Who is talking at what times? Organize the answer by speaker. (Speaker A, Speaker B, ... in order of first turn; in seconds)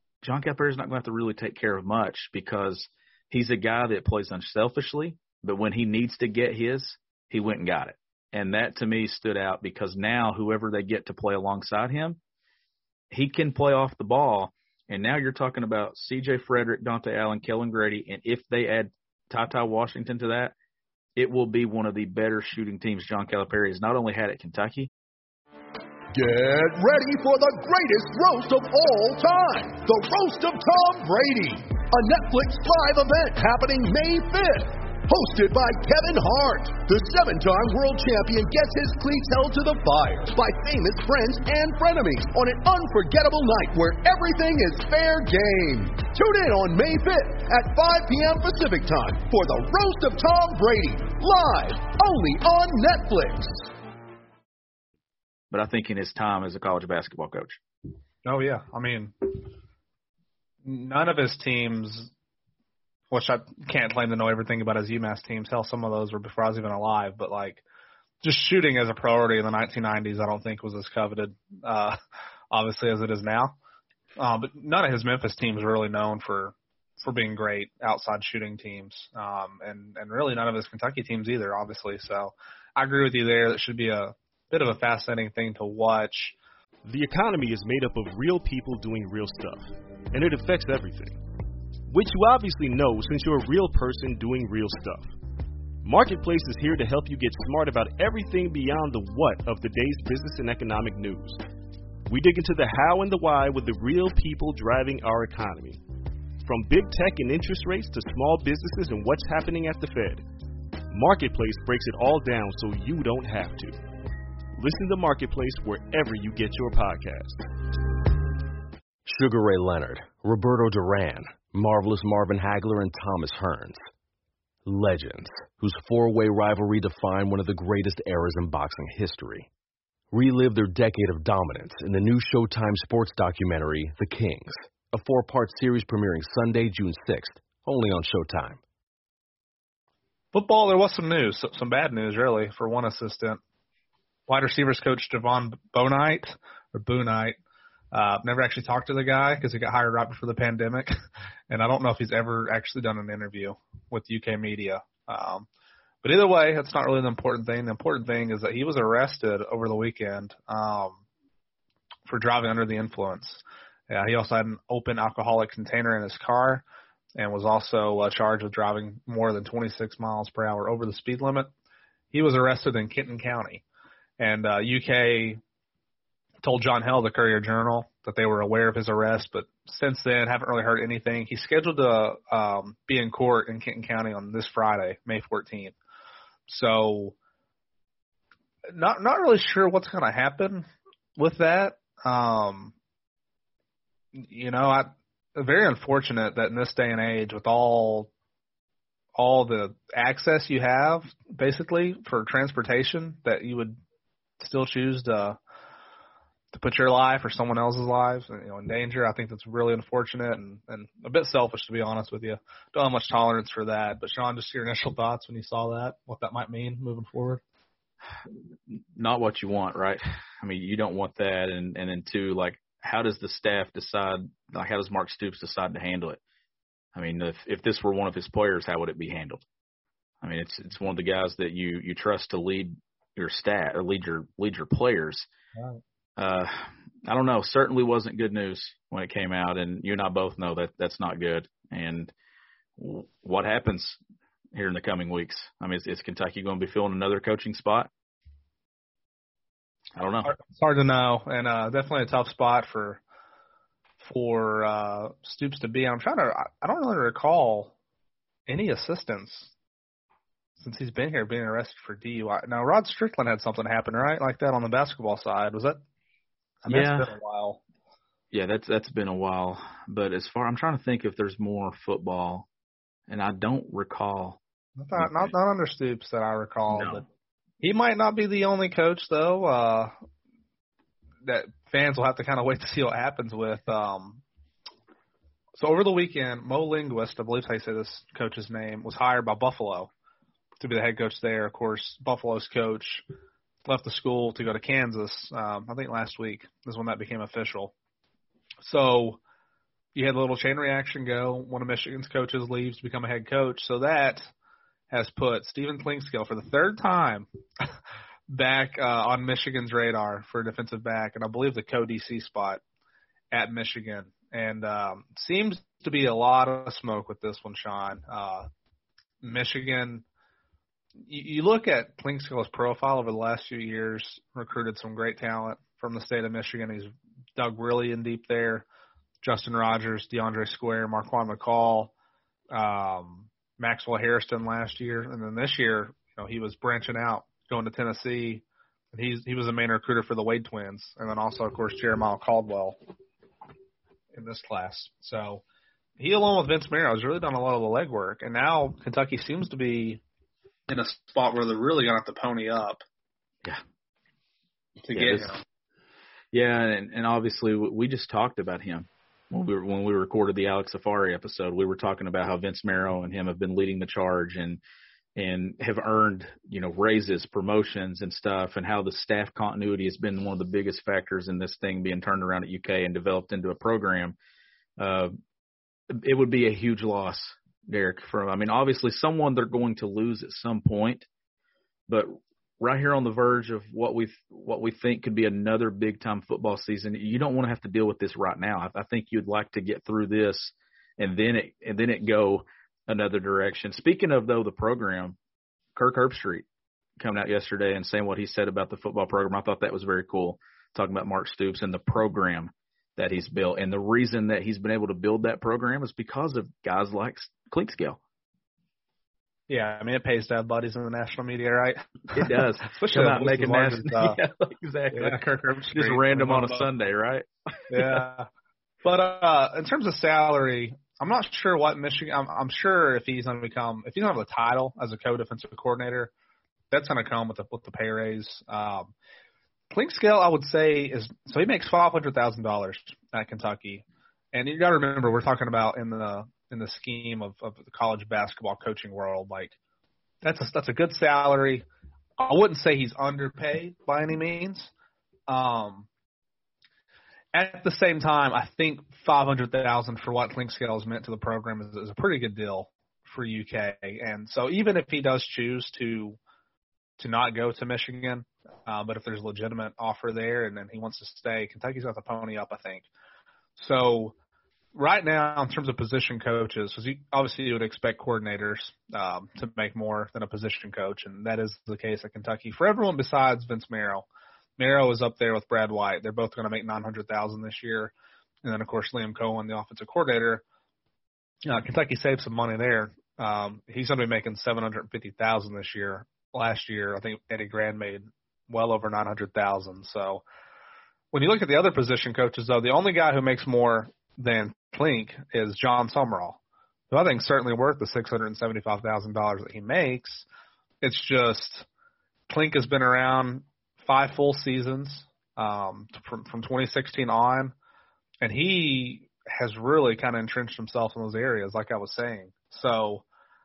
Speaker A: 0.2-12.2, 13.1-20.5, 21.1-24.9, 55.5-57.6, 218.7-226.2, 226.9-229.4, 230.2-235.3, 236.2-242.1, 242.8-244.0, 244.5-247.9, 249.9-250.3, 266.7-267.1, 268.3-272.5, 273.1-274.4, 274.9-275.3, 276.7-277.0, 354.9-355.3, 356.3-364.6, 365.1-374.2, 374.8-375.1, 376.0-381.1, 381.9-395.2, 395.8-396.4, 397.0-408.0, 412.1-415.2, 415.7-418.0
Speaker B: 26.1-53.7
Speaker C: 58.2-59.4, 60.6-62.1, 63.1-67.6, 68.2-72.0, 72.5-73.5, 74.2-86.4, 140.3-143.4, 144.3-147.3, 147.9-150.9, 151.5-155.5, 156.0-161.0, 162.1-166.6, 167.2-171.5, 172.1-173.6, 174.2-175.4, 176.4-185.7, 186.5-187.2, 188.7-192.7, 194.2-198.1, 199.2-203.8, 204.4-205.4, 206.5-217.4, 250.2-253.0, 254.0-257.7, 258.5-259.5, 260.6-265.8, 266.6-267.6, 274.8-277.0, 277.6-279.9, 281.2-284.2, 285.5-289.9, 290.6-293.0, 293.6-297.7, 298.6-299.2, 299.9-304.3, 304.9-307.3, 308.3-312.6, 313.3-318.5, 319.2-320.0, 321.1-328.7, 329.2-331.9, 332.5-342.8, 344.1-345.4, 346.0-350.0, 350.7-352.8, 354.8-355.4, 409.5-414.2, 414.9-416.7, 417.7-418.3, 418.8-426.1, 426.7-428.9, 429.7-439.6, 440.2-441.6, 442.2-444.7, 445.3-445.9, 447.3-456.2, 457.0-462.9, 463.6-464.1, 464.7-474.1, 474.6-477.9, 478.4-480.4, 481.4-490.2, 491.1-496.4, 496.9-500.2, 500.8-501.7, 502.3-507.5, 508.2-513.0
Speaker D: 86.8-91.2, 91.9-95.1, 95.8-101.4, 102.1-105.8, 106.4-110.2, 110.9-113.8, 114.6-117.4
Speaker E: 119.0-123.8, 124.6-129.5, 130.1-138.6